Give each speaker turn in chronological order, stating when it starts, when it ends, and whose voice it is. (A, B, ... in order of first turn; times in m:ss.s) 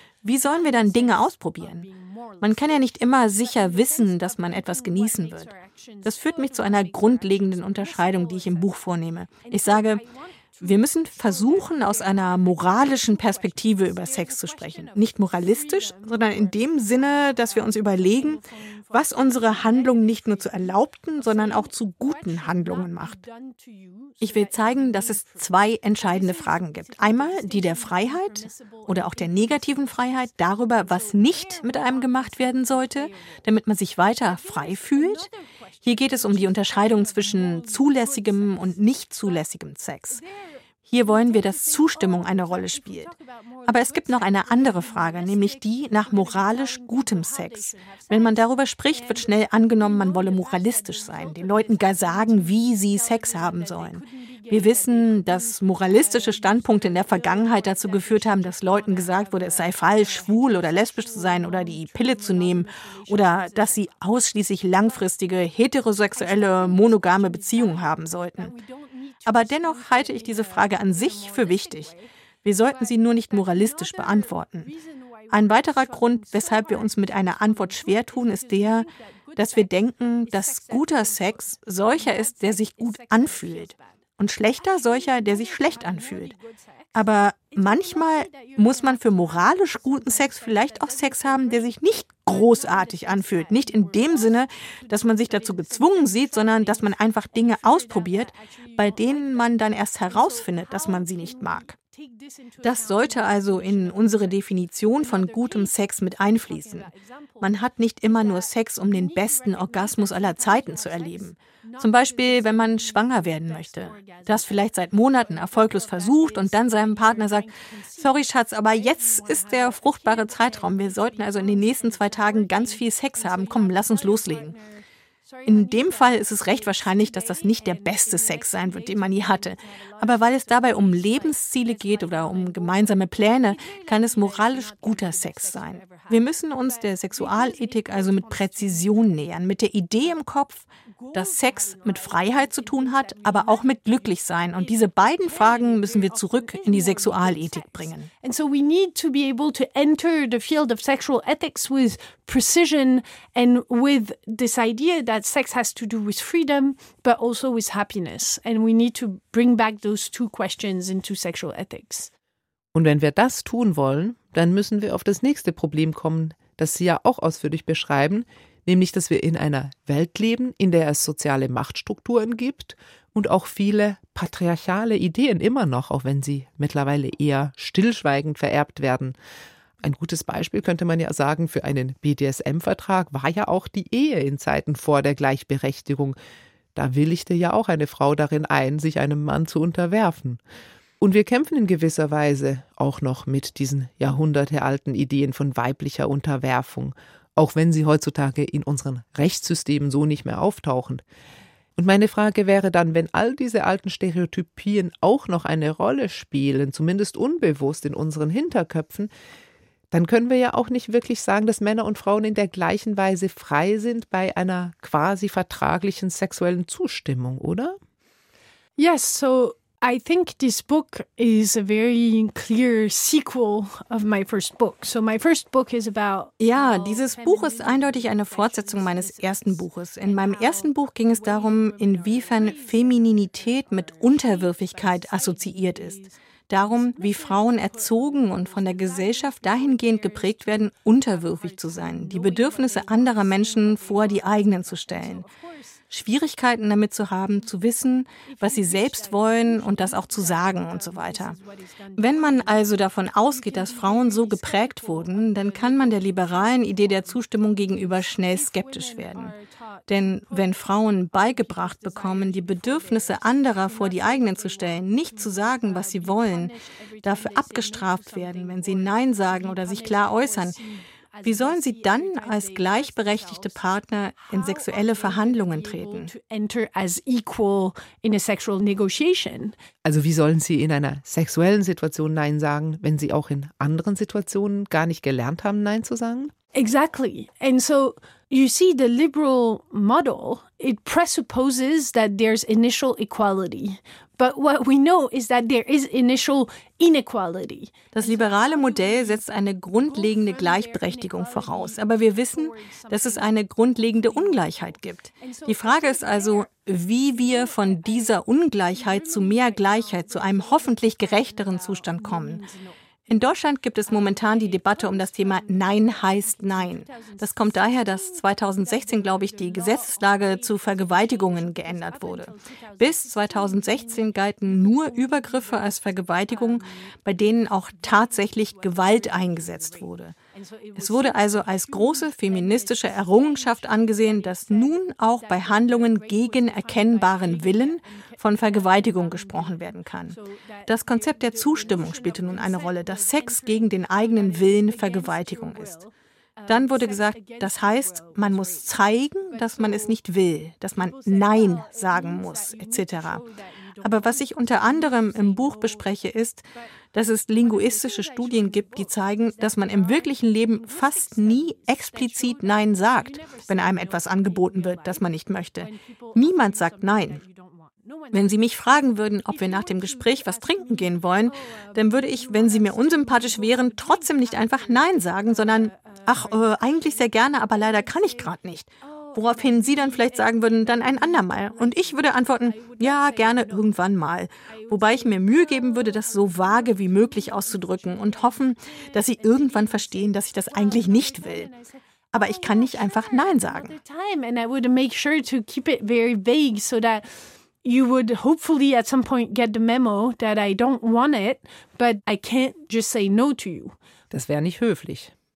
0:00.2-0:33.4 A
0:00.2-0:01.9 B
0:02.4-0:05.5 B
0:06.0-0:10.0 B
0:10.6-0:18.4 B
0:18.9-0:23.2 B
0:24.2-0:35.3 B
0:34.2-0:39.4 A
0:35.8-0:40.2 B
0:40.1-1:04.0 A
0:40.9-0:43.1 B
0:43.7-1:08.5 B
1:04.8-1:05.1 A
1:06.1-2:19.3 A
1:09.2-1:11.9 B
1:12.4-1:14.7 B
1:15.3-1:26.3 B
1:26.9-1:41.7 B
1:42.6-1:46.9 B
1:47.4-1:57.5 B
1:58.0-2:04.5 B
2:05.4-2:28.1 B
2:21.0-2:42.1 A
2:42.7-2:59.2 C
2:59.8-3:06.2 C
3:06.7-3:10.4 C
3:11.0-3:21.0 C
3:21.8-3:29.1 C
3:29.9-3:37.8 C
3:38.8-4:05.8 A
3:46.4-4:05.2 B
4:05.9-4:11.4 B
4:08.2-4:39.6 A
4:12.0-4:19.3 B
4:19.9-4:26.5 B
4:27.0-4:30.5 B
4:31.2-4:36.1 B
4:39.8-4:46.3 C
4:46.5-5:06.5 A
4:57.9-5:12.4 B
5:07.0-5:12.8 A
5:13.1-5:30.1 B
5:13.8-5:49.9 A
5:30.8-5:40.2 B
5:40.7-5:45.7 B
5:46.5-5:53.2 B
5:50.8-5:56.0 A
5:53.8-6:07.2 B
5:57.3-6:23.9 A
6:08.1-6:31.5 B
6:24.5-6:37.1 A
6:32.1-6:33.7 B
6:37.6-6:43.7 A
6:44.1-6:45.1 C